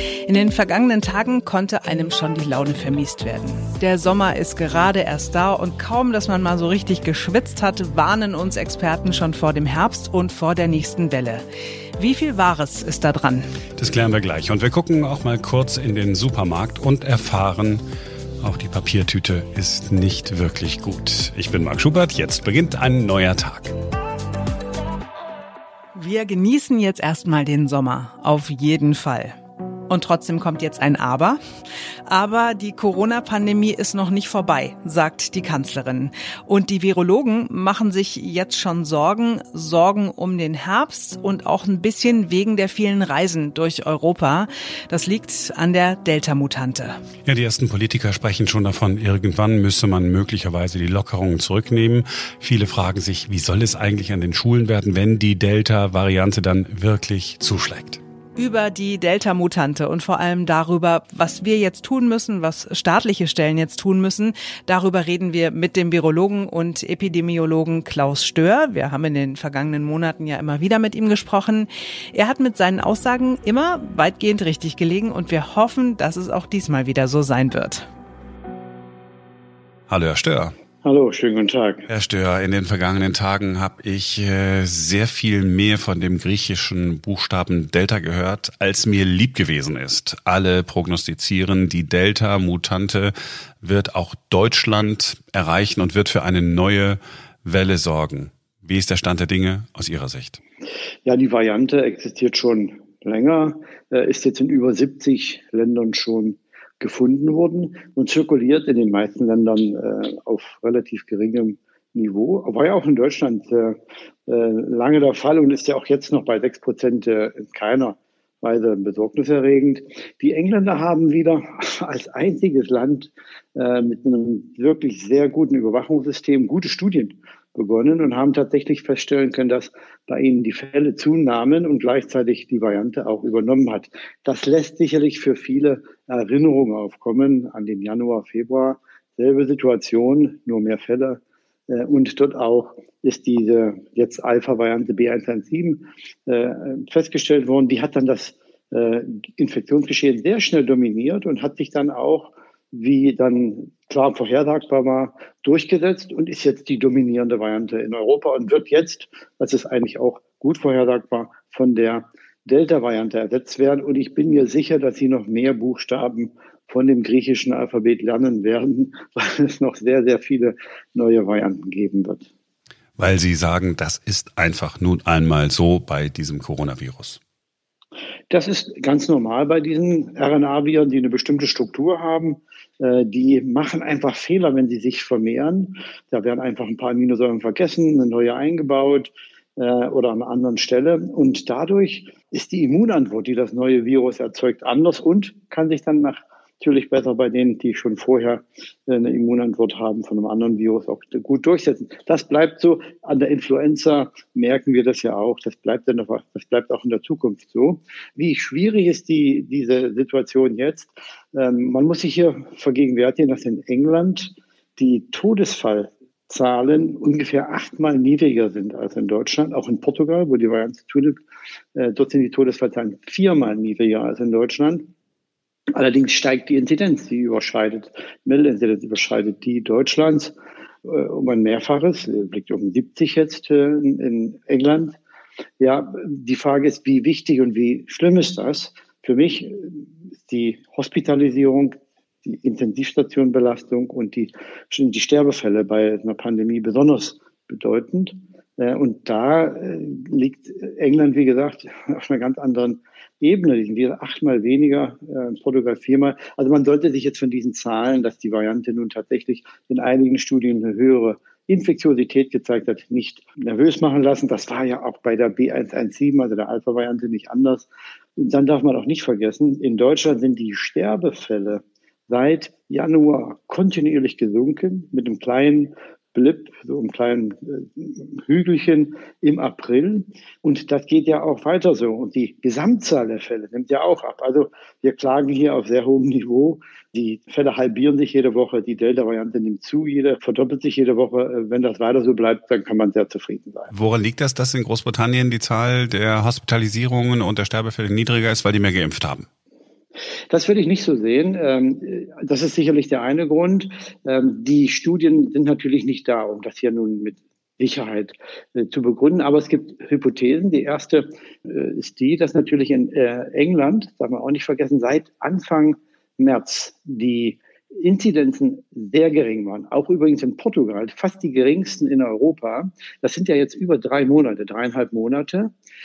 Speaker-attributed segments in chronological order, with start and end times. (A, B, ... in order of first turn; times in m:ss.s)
0:00.3-0:11.4 A
0:12.0-0:13.5 A
0:13.8-0:17.8 B
0:18.4-0:23.8 B
0:26.0-0:29.4 A
0:29.9-0:31.4 A
0:32.1-0:47.0 A
0:47.2-0:58.0 B
0:58.4-1:17.9 A
1:19.9-1:20.6 B
1:20.8-1:21.9 C
1:21.9-1:40.4 B
1:41.0-2:52.3 C
2:53.0-2:57.2 B
2:58.3-3:41.2 C
3:41.8-3:44.9 C
3:45.7-3:50.3 C
3:50.8-3:55.0 C
3:55.6-4:53.7 C
4:53.7-4:59.3 B
5:00.3-5:25.5 C